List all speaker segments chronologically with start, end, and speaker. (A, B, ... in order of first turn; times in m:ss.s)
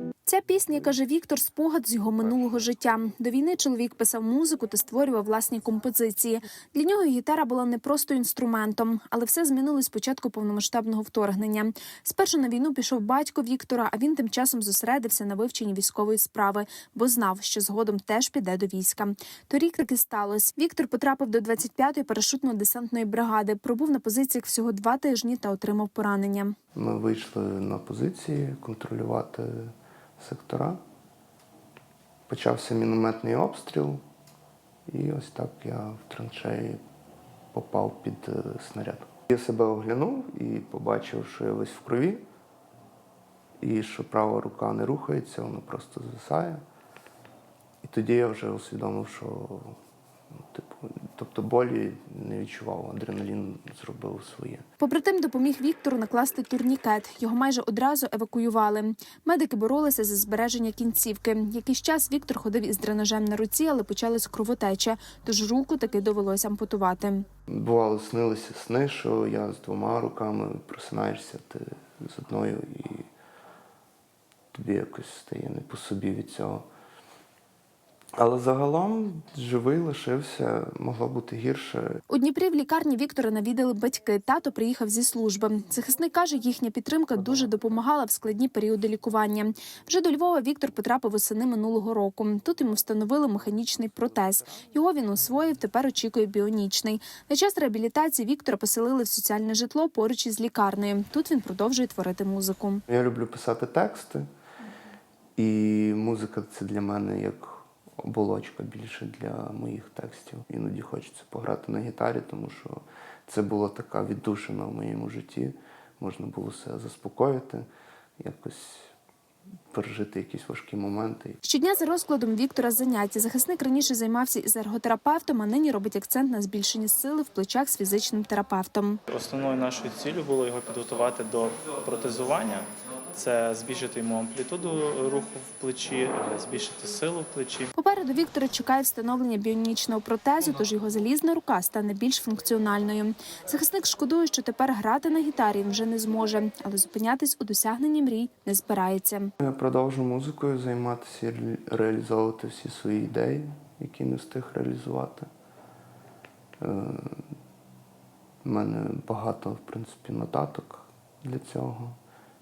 0:00.3-0:26.5 A
0:26.8-0:30.8 B
0:32.3-0:34.0 B
0:34.9-0:36.8 B
0:37.5-0:42.2 B
0:43.6-0:46.6 B
0:47.8-0:49.8 B
0:50.5-0:54.6 B
0:54.8-1:07.2 A
1:07.5-1:13.1 B
1:14.5-1:16.6 B
1:18.2-1:22.0 B
1:22.1-1:42.8 A
1:42.9-1:44.3 B
1:45.4-1:57.7 B
1:58.2-1:58.9 B
1:59.7-2:01.4 B
2:01.4-2:09.0 A
2:09.1-2:17.7 C
2:17.6-2:29.3 A
2:29.4-2:35.3 B
2:36.6-2:37.2 B
2:38.4-2:42.0 B